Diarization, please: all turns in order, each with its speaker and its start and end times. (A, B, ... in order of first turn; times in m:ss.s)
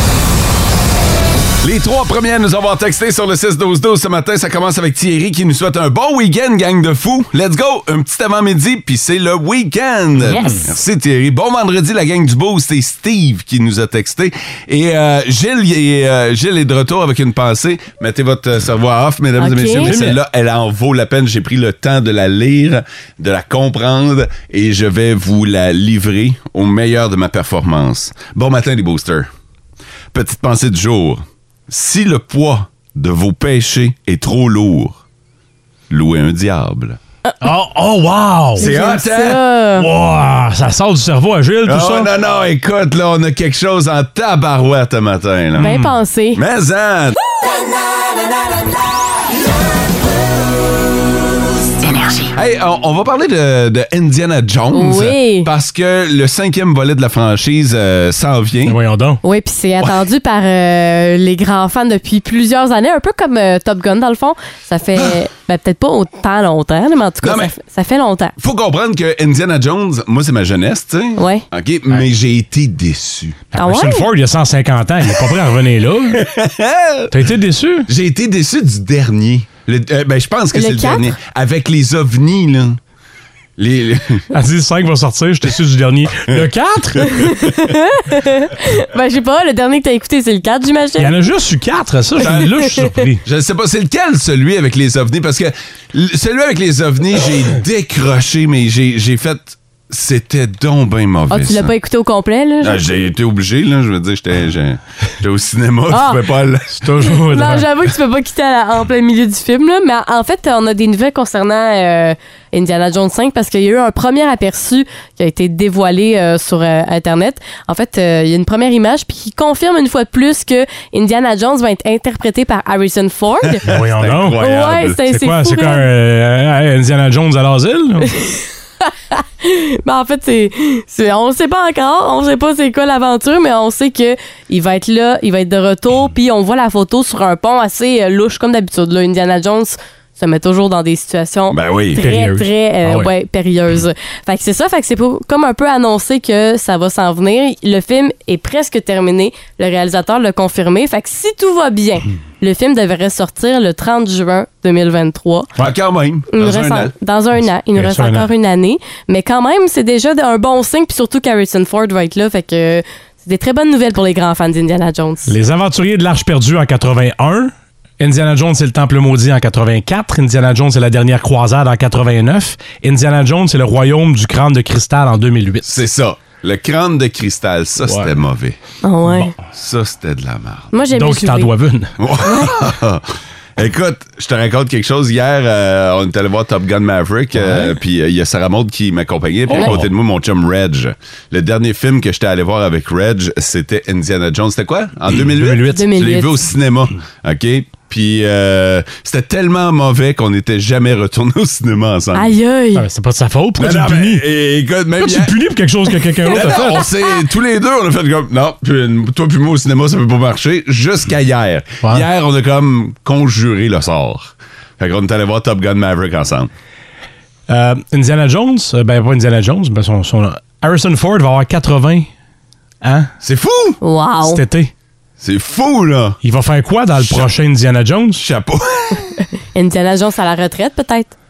0:01.6-0:29.3 A
0:10.3-0:10.6 B
0:19.4-0:19.9 C
0:19.8-0:20.2 B
0:30.1-0:35.0 A
0:35.9-0:37.0 A
0:37.4-0:38.7 B
0:38.6-0:39.4 A
0:38.6-0:39.9 C
0:39.8-0:42.1 B
0:41.6-0:45.8 A
0:45.6-0:46.4 C
0:45.6-0:45.9 B
0:46.3-0:47.2 A
0:52.3-0:58.8 A
0:54.7-0:55.5 C
0:58.6-0:59.2 B
0:59.2-1:08.3 C
1:07.2-1:07.5 A
1:08.4-1:13.4 A
1:11.2-1:11.4 C
1:13.5-1:16.2 B
1:13.5-1:14.1 C
1:16.1-1:17.1 A
1:17.1-1:17.9 B
1:17.9-1:22.8 A
1:20.5-1:21.1 C
1:23.6-1:24.3 A
1:24.3-1:27.4 B
1:27.4-1:31.1 C
1:31.0-1:33.2 B
1:32.2-1:32.5 A
1:32.2-1:32.8 C
1:33.2-1:41.7 A
1:41.3-1:42.8 C
1:42.6-1:46.9 A
1:45.9-1:46.2 C
1:46.8-1:47.7 B
1:47.3-2:03.6 C
2:03.5-2:05.0 A
2:03.7-2:04.4 B
2:04.4-2:05.8 C
2:05.0-2:08.1 B
2:08.2-2:35.5 C
2:21.5-2:22.0 A
2:22.0-2:23.1 B
2:35.6-2:36.9 A
2:36.3-2:45.3 C
2:37.8-2:38.3 B
2:45.3-2:55.7 B
2:55.6-2:58.6 A
2:57.8-2:58.1 B
2:58.8-2:59.3 C
2:59.5-3:00.7 A
3:00.7-3:01.5 C
3:00.9-3:01.9 B
3:02.0-3:22.3 A
3:02.2-3:02.6 C
3:07.4-3:07.7 B
3:09.5-3:09.9 B
3:15.7-3:16.4 C
3:22.1-3:22.8 C
3:22.7-3:24.2 B
3:23.6-3:25.3 A
3:25.0-3:26.9 B
3:26.3-3:36.5 A
3:37.5-3:42.1 B
3:42.8-3:43.1 B
3:43.2-3:43.8 A
3:43.8-3:44.4 C
3:44.2-3:44.7 B
3:45.2-3:46.2 A
3:46.2-3:48.2 B
3:46.9-3:47.3 A
3:48.2-3:49.1 A
3:49.5-3:51.1 C